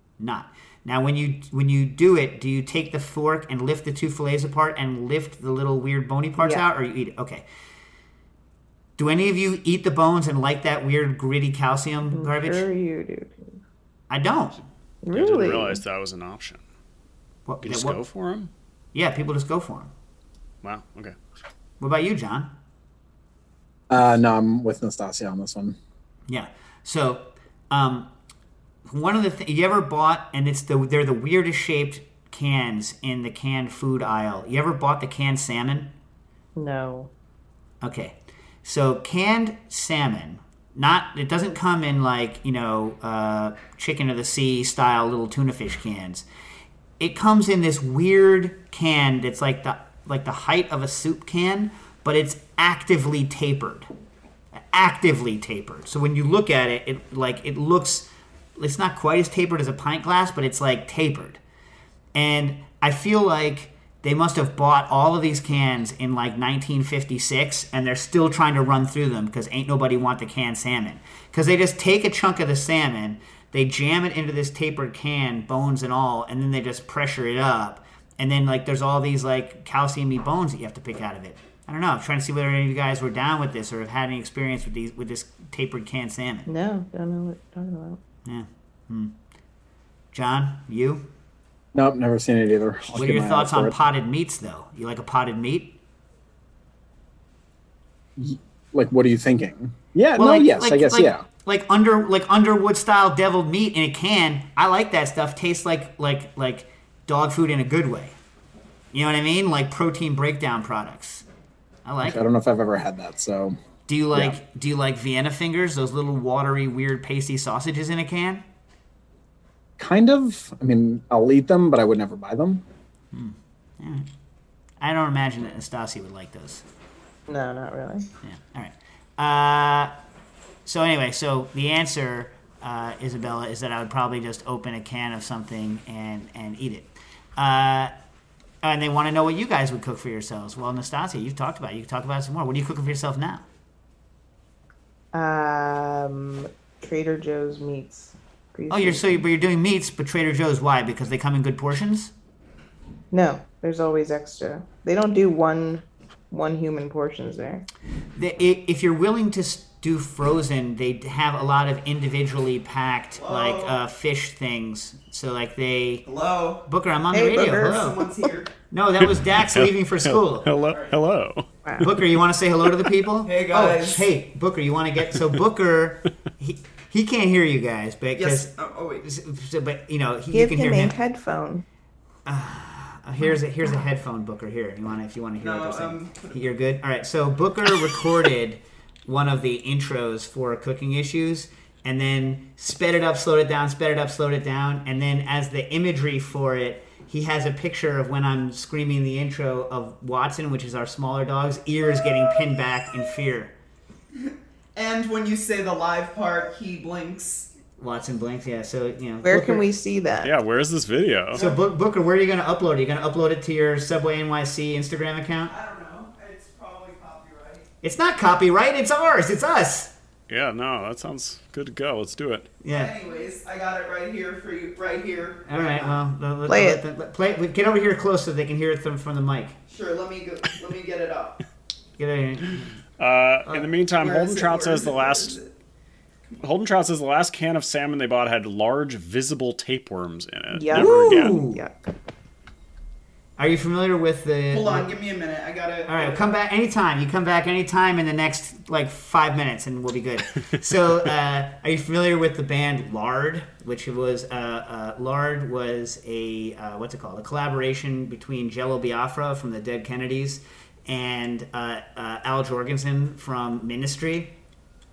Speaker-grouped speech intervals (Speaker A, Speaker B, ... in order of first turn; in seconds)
Speaker A: 0.2-7.5, 9.0-12.7, 14.1-14.6, 17.5-18.0, 18.9-19.9, 21.8-22.5, 26.3-28.1, 28.9-35.9, 37.8-46.2, 47.0-53.9, 54.7-61.4, 62.1-86.5, 88.2-89.1, 90.1-91.1, 93.0-95.8, 100.2-108.2, 108.9-111.2, 111.8-112.2, 113.9-118.5, 123.1-124.1, 124.8-126.6, 128.2-129.9, 130.7-137.9, 138.6-143.4, 148.7-152.1, 158.2-166.1, 166.7-168.1, 168.7-170.5, 171.8-181.0, 182.3-203.5, 207.8-209.6, 211.3-215.5, 217.8-219.9, 222.6-223.0, 225.5-229.6, 232.0-232.7, 240.7-241.6, 243.4-244.9, 245.9-264.3
Speaker B: 12.1-13.6, 15.0-15.8, 36.5-37.1, 86.5-88.0, 127.3-128.1, 145.1-149.2, 153.1-157.7, 167.1-167.9, 180.3-181.7, 209.2-210.3, 226.5-226.8, 240.5-241.8
Speaker C: 15.1-16.6, 17.6-18.5, 20.6-21.2, 169.0-171.9, 175.1-175.4, 210.2-211.4, 220.3-222.5, 233.0-235.4, 236.4-241.4
Speaker D: 23.9-25.8, 91.7-93.8, 98.2-101.2, 112.0-113.6, 119.8-122.6
Speaker E: 163.2-163.8, 166.1-166.6, 167.8-168.5, 173.2-174.1, 178.2-179.0, 185.4-186.3, 204.8-207.5, 215.5-217.7, 222.7-226.0, 229.7-231.4, 234.0-235.5, 244.5-246.3